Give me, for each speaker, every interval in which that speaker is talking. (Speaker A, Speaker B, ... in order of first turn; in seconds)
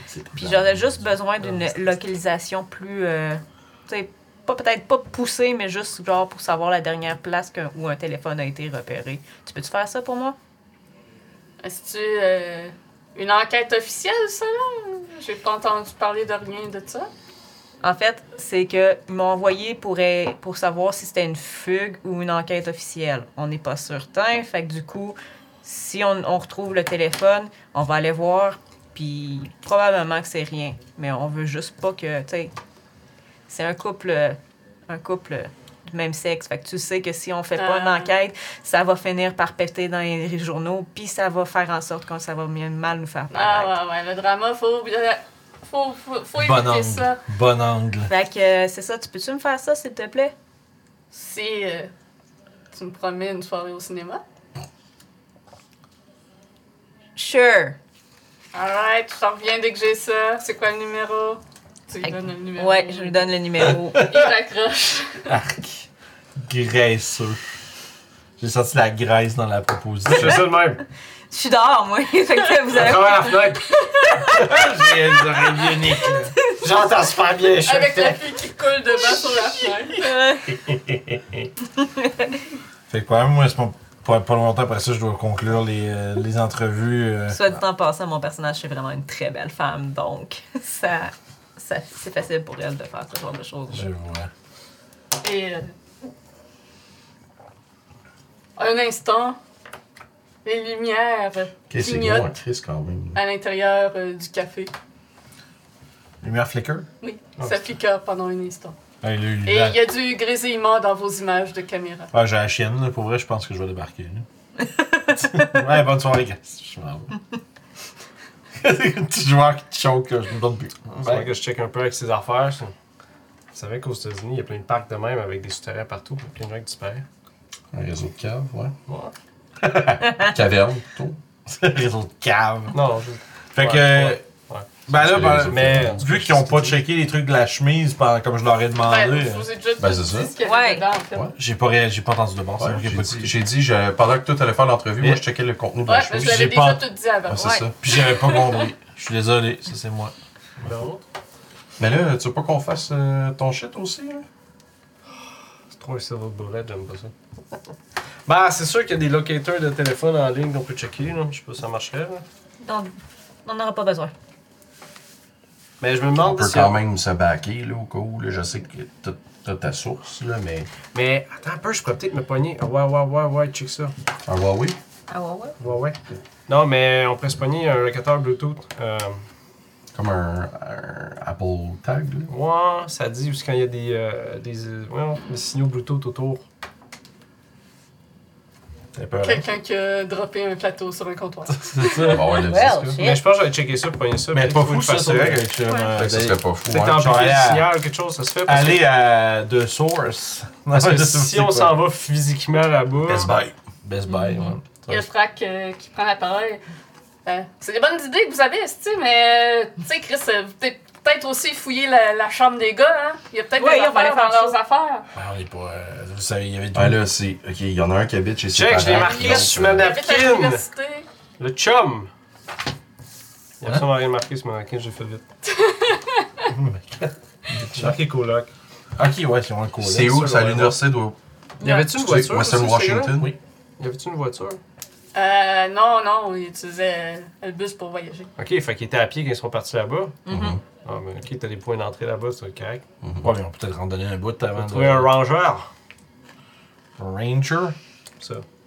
Speaker A: 0.1-0.7, 101.7-103.2, 127.7-128.7, 130.1-131.2, 134.9-136.4, 139.8-140.3, 142.6-146.4, 147.3-147.7, 151.8-154.2, 166.2-170.7, 174.2-174.8, 179.9-182.3, 192.1-192.9, 195.9-197.2, 203.1-203.5, 216.7-219.9, 229.8-231.2, 231.8-233.3, 240.3-240.6, 243.0-243.3
Speaker B: 0.3-10.3, 17.8-32.5, 33.5-43.7, 48.1-50.3, 57.1-57.8, 62.0-64.1, 71.3-74.5, 80.0-80.5, 81.8-82.4, 87.3-93.9, 140.4-140.8, 162.6-162.9, 163.4-164.1, 175.1-175.6, 192.3-193.2, 195.6-195.9, 204.1-204.5, 213.6-214.6, 231.6-231.9, 240.2-240.6
Speaker C: 11.6-17.1, 37.5-38.1, 43.3-47.2, 51.1-51.9, 52.7-54.2, 58.5-63.2, 64.0-65.2, 77.6-80.1, 95.2-95.7, 98.6-99.4, 100.4-102.3, 103.1-104.7, 107.0-108.8, 109.4-112.1, 138.8-141.3, 145.9-148.7, 189.2-192.2, 204.9-206.6, 207.2-215.1, 218.9-221.1, 225.4-226.4, 235.1-238.3
Speaker D: 46.4-48.1, 63.6-64.3, 65.2-67.4, 68.4-70.5, 74.3-76.3, 77.3-78.1, 82.9-87.6, 93.7-94.3, 106.2-106.9, 109.0-109.8, 112.1-114.2, 115.1-117.1, 118.6-121.3, 129.6-130.3, 131.5-132.8, 133.5-134.2, 134.9-139.5, 141.3-143.4, 146.2-146.9, 147.8-150.6, 188.9-189.4, 191.6-192.2, 194.3-196.4, 196.9-197.7, 198.4-201.7, 203.8-205.0, 215.1-217.0, 226.5-226.9, 227.5-227.9, 229.0-230.7, 243.2-245.1, 247.0-247.8
Speaker E: 70.0-70.8, 72.7-74.4, 76.6-78.0, 121.0-122.7, 123.5-127.0, 128.9-129.1, 132.7-134.7, 135.5-136.7, 150.6-151.0, 155.7-157.1, 158.3-162.2, 165.8-166.8, 170.9-173.9, 175.6-179.2, 182.3-186.4, 192.5-195.5, 196.7-198.8, 200.7-203.3, 218.5-220.6, 221.4-222.1, 223.6-225.2, 227.7-228.5, 231.6-233.2, 233.8-234.6, 238.4-240.2, 240.8-242.8, 244.5-245.7